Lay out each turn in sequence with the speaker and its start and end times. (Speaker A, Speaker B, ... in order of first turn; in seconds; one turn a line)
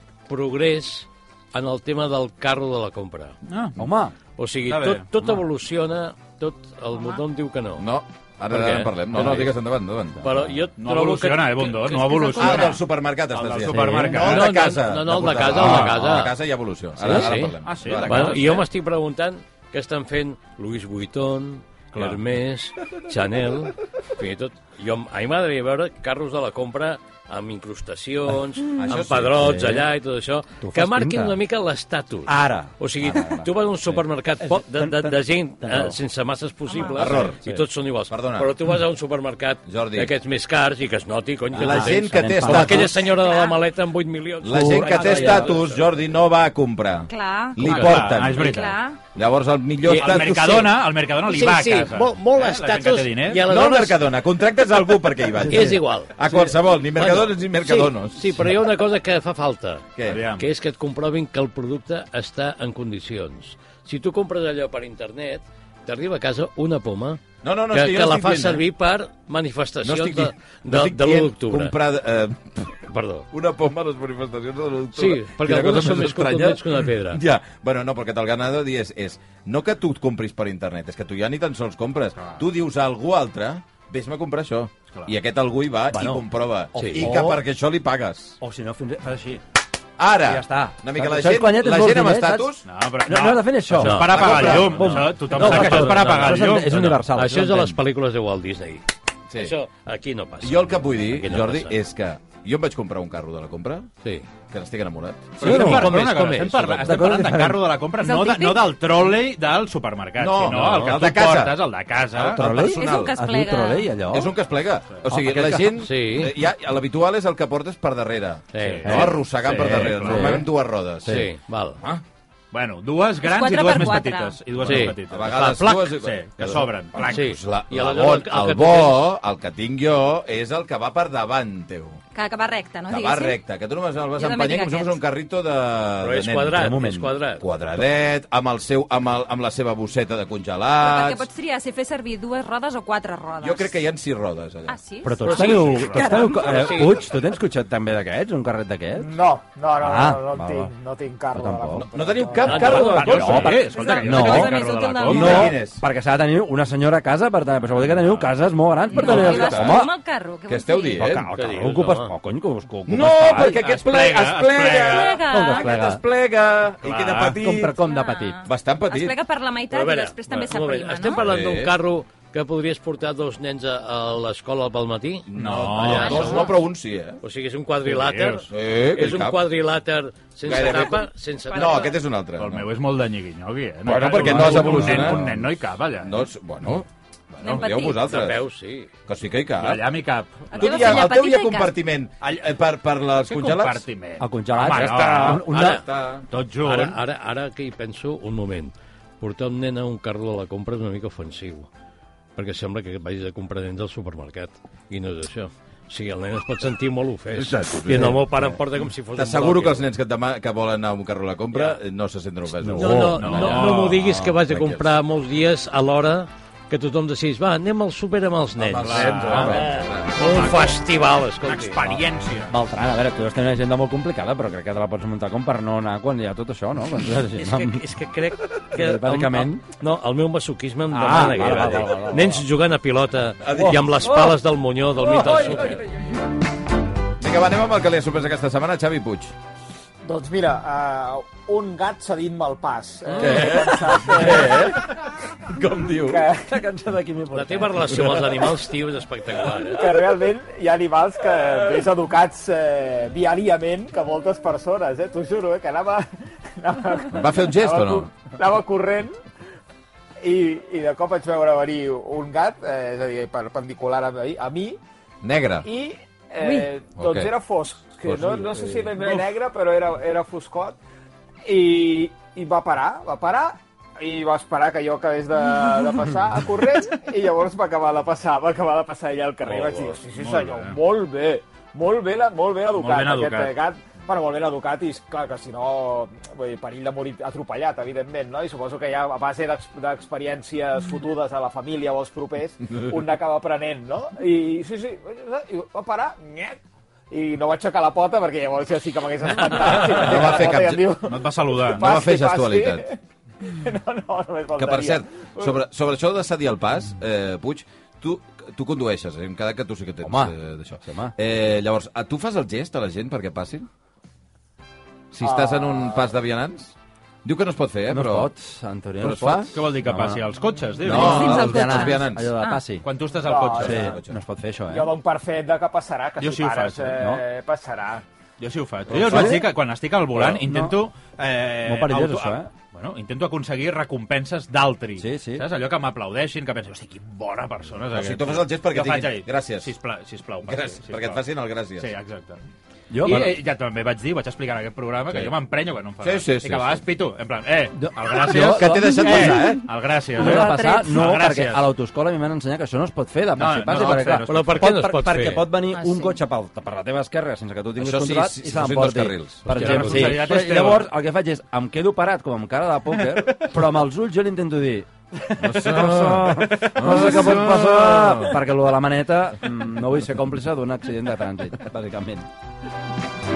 Speaker A: 0.3-3.4
Speaker B: 3.5-3.8
Speaker C: 3.8-4.1
Speaker A: 4.4-7.9
Speaker B: 4.7-5.1
Speaker D: 6.9-7.2
Speaker E: 7.8-10.4
Speaker A: 8.5-9.6
Speaker A: 10.2-12.7
Speaker B: 10.8-12.8
Speaker E: 12.3-18.5
Speaker B: 13.3-14.6
Speaker C: 13.7-14.2
Speaker A: 14.1-16.3
Speaker B: 15.6-15.9
Speaker A: 17.0-45.8
Speaker B: 17.6-18.6
Speaker E: 28.8-29.6
Speaker C: 29.4-29.9
Speaker C: 30.6-31.4
Speaker C: 32.3-36.0
Speaker D: 36.7-37.1
Speaker E: 36.9-37.4
Speaker E: 38.1-38.5
Speaker E: 39.7-40.1
Speaker E: 41.5-42.9
Speaker C: 41.6-42.9
Speaker D: 43.0-43.6
Speaker E: 44.4-48.5
Speaker C: 44.5-45.5
Speaker D: 47.1-47.8
Speaker B: 47.6-48.8
Speaker D: 48.3-49.0
Speaker E: 49.1-50.8
Speaker A: 49.8-50.6
Speaker B: 49.9-53.4
Speaker A: 51.2-54.1
Speaker E: 53.4-58.3
Speaker A: 55.5-56.2
Speaker A: 56.9-71.7
Speaker E: 60.0-60.2
Speaker B: 60.0-60.5
Speaker E: 67.4-68.6
Speaker E: 69.8-88.4
Speaker A: 72.9-73.3
Speaker A: 74.9-77.2
Speaker C: 85.9-87.4
Speaker A: 86.8-87.1
Speaker C: 88.4-89.4
Speaker E: 90.0-92.6
Speaker C: 90.2-92.5
Speaker B: 92.6-96.8
Speaker C: 93.0-97.8
Speaker A: 93.8-101.8
Speaker E: 94.2-94.7
Speaker E: 100.4-103.9
Speaker E: 104.5-106.8
Speaker B: 105.4-112.4
Speaker A: 105.4-106.8
Speaker C: 105.4-106.0
Speaker C: 106.8-107.7
Speaker D: 108.0-108.7
Speaker E: 110.2-111.6
Speaker A: 110.5-111.0
Speaker E: 112.1-113.2
Speaker C: 112.4-114.3
Speaker D: 112.6-114.0
Speaker E: 114.1-121.2
Speaker C: 115.1-115.8
Speaker A: 115.8-116.3
Speaker A: 118.5-119.2
Speaker B: 118.6-120.4
Speaker C: 118.9-120.5
Speaker A: 121.0-121.8
Speaker B: 122.5-127.2
Speaker D: 123.2-124.4
Speaker E: 124.6-132.0
Speaker A: 124.6-125.9
Speaker A: 127.0-129.1
Speaker D: 132.1-133.4
Speaker E: 132.9-136.7
Speaker D: 134.1-135.0
Speaker A: 136.0-137.4
Speaker C: 136.5-137.1
Speaker E: 137.4-141.3
Speaker D: 140.8-143.7
Speaker E: 143.4-144.8
Speaker D: 144.7-146.7
Speaker C: 145.0-149.1
Speaker A: 145.2-147.1
Speaker B: 145.7-146.0
Speaker F: 149.0-152.7
Speaker C: 149.8-150.7
Speaker C: 151.3-151.9
Speaker E: 151.8-153.7
Speaker A: 152.4-153.4
Speaker B: 152.5-155.6
Speaker D: 152.6-155.5
Speaker C: 153.0-154.5
Speaker E: 155.0-155.8
Speaker C: 155.1-159.9
Speaker D: 158.9-161.1
Speaker E: 158.9-159.8
Speaker E: 160.5-161.3
Speaker C: 161.0-163.6
Speaker A: 161.3-162.1
Speaker E: 162.9-167.8
Speaker B: 163.4-165.2
Speaker D: 164.7-165.7
Speaker C: 165.3-166.0
Speaker B: 166.8-167.4
Speaker C: 167.3-168.4
Speaker D: 167.8-171.2
Speaker E: 168.4-169.2
Speaker A: 169.7-175.3
Speaker E: 171.1-171.7
Speaker E: 175.3-177.2
Speaker B: 175.3-176.4
Speaker D: 175.8-176.6
Speaker A: 175.9-176.4
Speaker A: 177.2-181.9
Speaker B: 177.8-178.5
Speaker E: 178.5-179.4
Speaker E: 180.4-182.6
Speaker D: 181.5-181.9
Speaker B: 182.4-186.2
Speaker E: 183.8-185.3
Speaker C: 184.2-185.4
Speaker E: 186.0-186.9
Speaker E: 187.4-188.4
Speaker D: 187.4-188.1
Speaker A: 188.0-188.9
Speaker E: 189.1-189.8
Speaker B: 189.6-190.9
Speaker D: 190.5-191.7
Speaker E: 190.5-193.8
Speaker B: 193.2-195.5
Speaker C: 194.2-195.8
Speaker E: 194.8-196.2
Speaker A: 195.3-195.8
Speaker B: 196.3-197.0
Speaker A: 196.6-201.7
Speaker A: 202.3-209.8
Speaker E: 207.3-208.3
Speaker C: 207.9-208.4
Speaker E: 209.1-214.9
Speaker A: 211.5-211.8
Speaker C: 212.6-213.6
Speaker A: 212.8-221.9
Speaker B: 213.2-214.0
Speaker E: 218.6-220.4
Speaker B: 218.8-219.7
Speaker B: 220.2-220.8
Speaker B: 221.4-222.5
Speaker C: 222.5-227.8
Speaker A: 227.3-235.8
Speaker C: 228.7-229.6
Speaker C: 230.9-232.4
Speaker E: 233.4-233.8
Speaker C: 233.5-234.3
Speaker C: 235.0-235.8
Speaker E: 237.2-239.3
Speaker F: 240.0-244.8
Speaker E: 243.2-244.9
Speaker E: 245.4-246.3
Speaker F: 246.0-246.4
Speaker C: 246.4-248.2
Speaker A: 247.3-250.0
Speaker F: 249.7-259.2
Speaker E: 257.1-258.1
Speaker F: 260.2-264.8
Speaker E: 265.2-265.7
Speaker F: 265.6-270.8
Speaker D: 266.4-266.7
Speaker E: 267.0-267.3
Speaker E: 268.0-268.9
Speaker F: 271.4-296.6
Speaker A: 279.4-280.0
Speaker B: 280.1-280.8
Speaker B: 282.7-283.5
Speaker F: 297.1-305.5
Speaker E: 299.6-300.9
Speaker B: 301.0-301.9
Speaker E: 301.7-302.9
Speaker E: 304.5-313.7
Speaker C: 310.0-311.1
Speaker E: 315.1-318.3
Speaker F: 315.2-316.1
Speaker C: 317.9-320.2
Speaker E: 319.0-319.5
Speaker B: 319.5-321.5
Speaker E: 320.8-322.3
Speaker C: 320.8-322.8
Speaker D: 320.9-322.6
Speaker B: 322.8-323.8
Speaker F: 323.2-323.9
Speaker E: 323.5-324.1
Speaker C: 323.6-324.9
Speaker F: 324.7-328.0
Speaker B: 326.2-327.0
Speaker C: 326.9-327.2
Speaker B: 328.4-341.2
Speaker C: 328.9-329.5
Speaker C: 330.1-330.8
Speaker C: 331.6-332.5
Speaker C: 335.0-335.5
Speaker E: 337.9-339.7
Speaker E: 340.4-341.9
Speaker B: 341.8-342.4
Speaker C: 342.9-343.4
Speaker B: 343.0-351.6
Speaker E: 343.1-343.3
Speaker E: 346.0-346.8
Speaker C: 347.7-349.5
Speaker E: 348.3-349.6
Speaker C: 350.1-372.3
Speaker D: 350.2-350.9
Speaker B: 353.3-354.7
Speaker A: 354.3-355.4
Speaker D: 355.6-356.2
Speaker E: 357.8-359.4
Speaker A: 359.5-360.1
Speaker B: 359.5-360.9
Speaker E: 365.4-368.4